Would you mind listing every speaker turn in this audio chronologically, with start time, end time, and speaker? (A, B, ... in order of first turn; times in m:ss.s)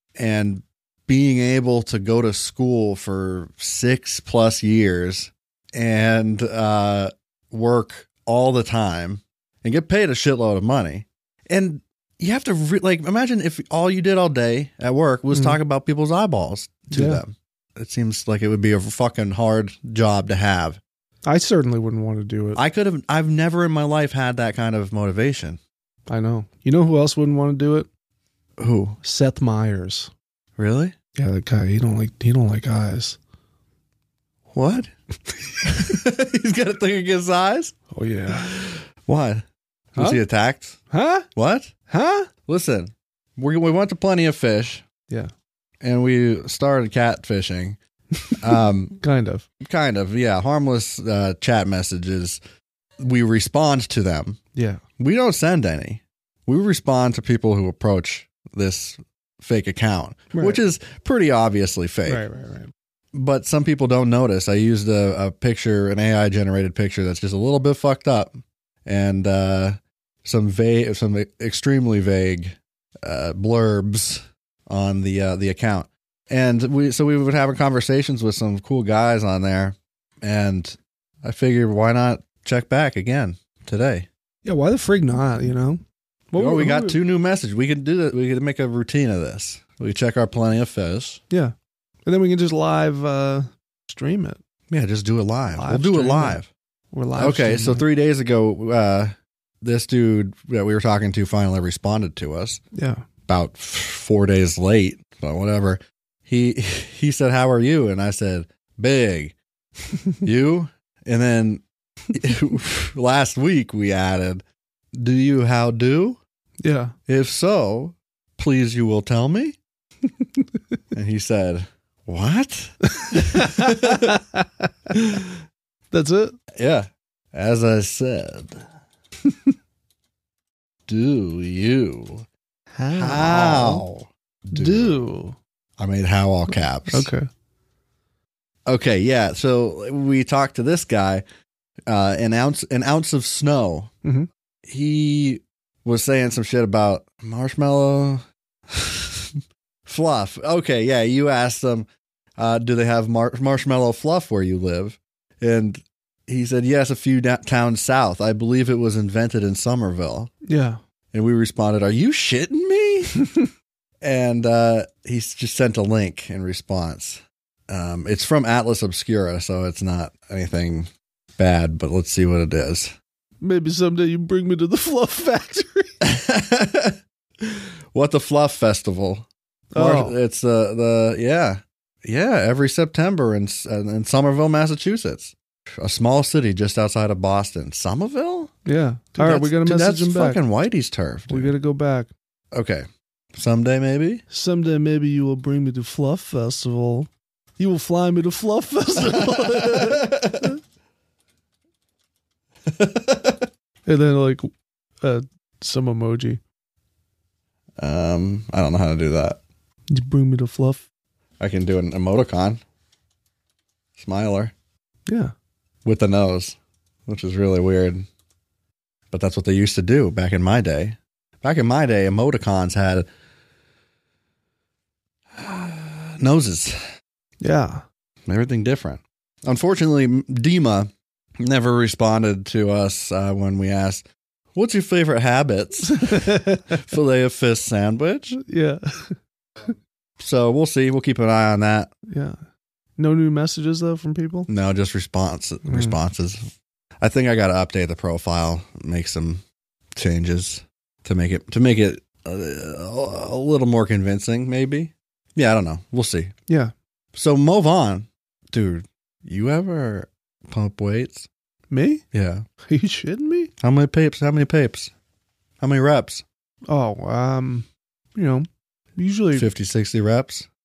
0:00.2-0:20.8 A
0:15.3-0:15.6 B
0:16.9-0:17.2 B
0:21.2-0:22.6 B
0:22.5-0:25.6 A
0:26.1-0:27.9 B
0:28.6-0:29.0 A
0:29.0-0:30.1 B
0:30.6-0:30.9 A
0:31.2-0:33.2 B
0:34.5-0:34.9 A
0:35.6-0:37.7 A
0:37.9-0:38.6 B
0:38.3-0:40.8 A
0:40.0-0:40.2 B
0:40.9-0:41.3 B
0:41.3-0:41.7 A
0:41.9-0:42.3 B
0:42.4-0:44.8 A
0:45.8-0:47.8 A
0:48.4-0:49.0 A
0:49.0-0:49.4 B
0:49.6-0:52.4 A
0:53.0-0:54.4 A
0:54.5-0:54.8 B
0:55.0-1:02.2 A
1:00.3-1:00.6 B
1:02.0-1:02.7 B
1:03.1-1:24.1 A
1:24.4-1:27.0 B
1:26.4-1:31.2 A
1:32.0-1:34.4 B
1:34.7-1:36.5 A
1:35.6-1:36.4 B
1:36.9-1:37.8 B
1:37.2-1:42.6 A
1:42.7-1:43.0 B
1:43.3-1:49.3 A
1:50.2-1:56.2 A
1:56.6-1:56.9 B
1:57.1-1:59.6 A
2:00.9-2:04.2 A
2:03.0-2:04.7 B
2:04.9-2:05.3 A
2:05.9-2:06.4 B
2:06.5-2:08.6 A
2:10.9-2:12.2 A
2:12.7-2:13.8 B
2:12.9-2:15.0 A
2:14.5-2:15.4 B
2:15.8-2:17.1 A
2:16.9-2:17.3 B
2:18.6-2:21.2 A
2:21.9-2:23.9 A
2:24.0-2:24.3 B
2:24.7-2:40.3 A
2:40.4-2:40.8 B
2:41.1-2:43.1 A
2:44.0-2:52.9 A
2:53.4-2:55.9 B
2:56.0-3:08.5 A
2:59.7-3:00.2 B
3:08.6-3:10.4 B
3:09.2-3:11.5 A
3:11.3-3:12.1 B
3:12.5-3:14.2 A
3:14.3-3:20.5 B
3:19.0-3:20.5 A
3:22.7-3:23.5 A
3:23.8-3:26.4 B
3:27.8-3:29.4 A
3:29.9-3:30.8 B
3:31.4-3:32.6 A
3:34.0-3:34.5 A
3:35.1-3:35.3 B
3:35.8-3:38.1 A
3:39.1-3:43.1 A
3:45.3-3:46.8 A
3:47.4-3:47.8 B
3:48.2-3:58.4 A
3:55.9-3:56.7 B
3:58.4-3:59.2 B
4:00.2-4:01.9 A
4:02.1-4:02.4 B
4:03.0-4:04.5 B
4:04.5-4:06.4 A
4:05.6-4:05.9 B
4:07.0-4:09.4 A
4:09.9-4:16.3 A
4:16.5-4:16.7 B
4:17.1-4:21.3 A
4:21.7-4:22.0 B
4:22.1-4:22.4 A
4:22.7-4:23.5 B
4:23.6-4:24.9 A
4:25.6-4:26.2 A
4:26.7-4:29.5 B
4:29.3-4:30.5 A